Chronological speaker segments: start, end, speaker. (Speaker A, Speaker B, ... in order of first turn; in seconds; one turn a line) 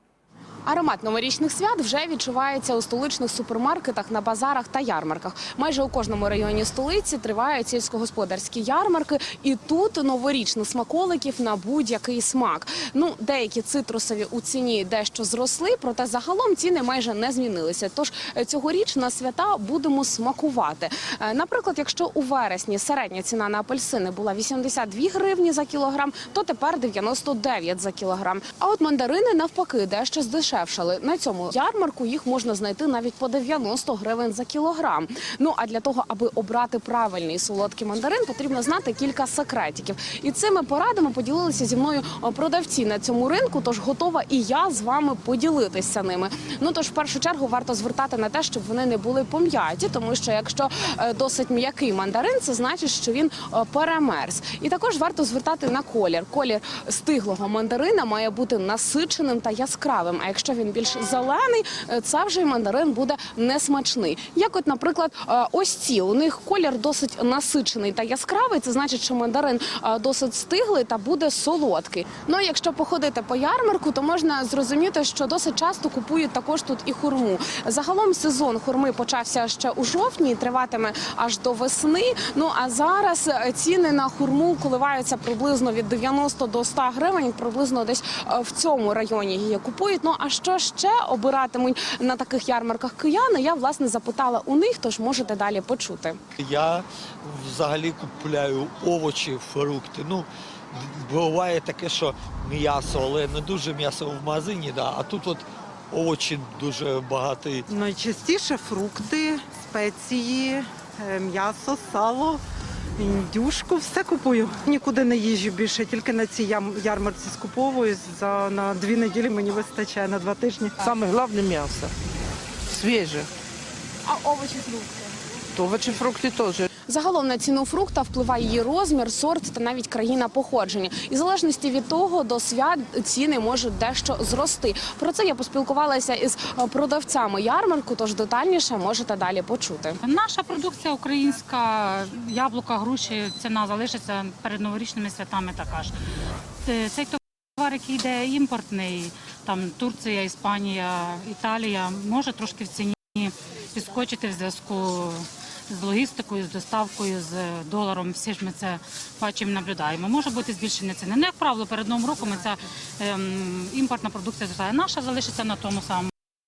Speaker A: 0.7-96.2
Speaker B: 96.4-107.7
Speaker C: 107.7-112.4
Speaker C: 113.0-120.8
Speaker D: 120.8-121.9
Speaker D: 122.7-123.3
Speaker A: 124.1-124.8
Speaker D: 125.5-126.7
Speaker A: 126.9-140.0
Speaker E: 140.0-145.9
Speaker E: 146.7-166.1